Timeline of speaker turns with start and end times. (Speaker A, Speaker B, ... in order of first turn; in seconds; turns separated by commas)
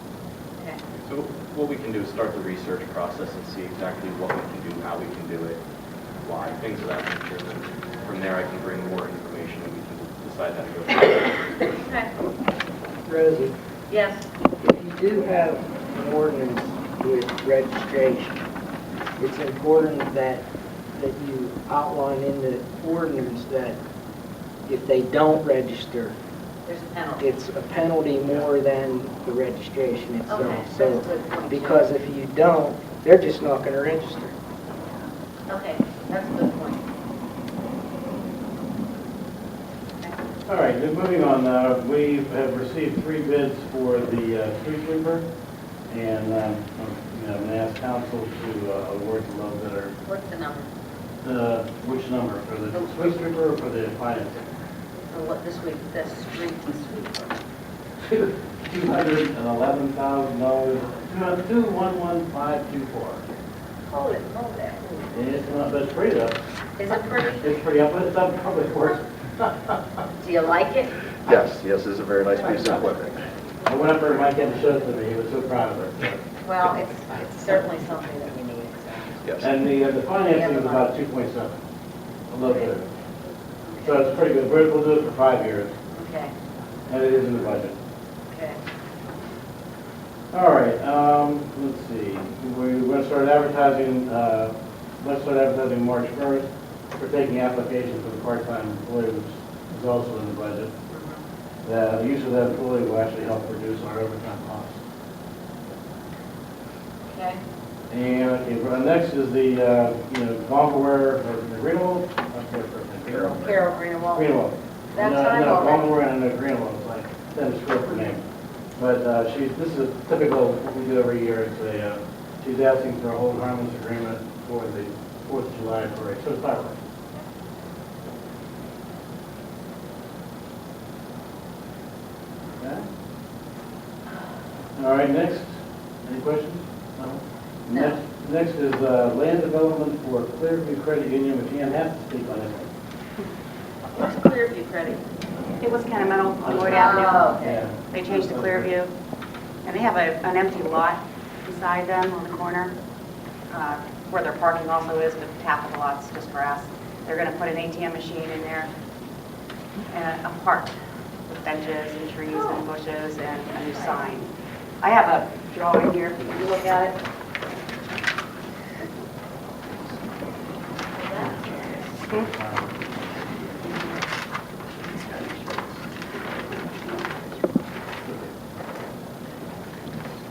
Speaker A: 1.0-5.6, Speaker A: 6.2-11.8, Speaker B: 11.8-12.1, Speaker C: 13.0-13.5, Speaker B: 13.9-14.3, Speaker C: 14.6-18.4, Speaker C: 19.2-23.8, Speaker C: 24.6-26.1, Speaker B: 26.6-27.3, Speaker C: 27.2-34.4, Speaker B: 30.3-31.9, Speaker B: 35.5-36.8, Speaker D: 40.5-45.2, Speaker D: 45.9-49.9, Speaker B: 50.0-50.7, Speaker D: 51.2-54.5, Speaker B: 52.7-53.2, Speaker B: 55.1-57.4, Speaker D: 58.1-63.4, Speaker B: 63.9-65.0, Speaker D: 65.1-66.4, Speaker B: 66.8-67.5, Speaker D: 67.4-69.8, Speaker B: 70.2-70.9, Speaker E: 71.3-73.2, Speaker D: 73.6-76.2, Speaker B: 76.4-79.3, Speaker D: 79.4-81.6, Speaker B: 80.2-81.0, Speaker D: 82.3-82.8, Speaker B: 83.6-84.0, Speaker D: 83.8-85.7, Speaker B: 85.9-86.3, Speaker D: 86.9-87.7, Speaker B: 88.3-88.6, Speaker D: 90.3-100.7, Speaker B: 100.9-101.2, Speaker D: 101.6-104.8, Speaker B: 107.1-107.4, Speaker D: 107.9-113.5, Speaker A: 113.1-113.5, Speaker B: 113.4-114.4, Speaker D: 114.1-118.2, Speaker B: 114.9-115.9, Speaker D: 118.8-126.8, Speaker D: 132.6-132.8, Speaker D: 134.8-142.7, Speaker B: 137.7-138.0, Speaker B: 144.0-145.0, Speaker F: 145.6-148.9, Speaker D: 146.4-148.7, Speaker B: 146.5-147.6, Speaker F: 149.6-152.7, Speaker F: 153.5-158.7, Speaker F: 159.9-160.7, Speaker F: 161.3-167.0, Speaker B: 163.5-164.0, Speaker B: 171.0-172.0, Speaker D: 172.1-172.7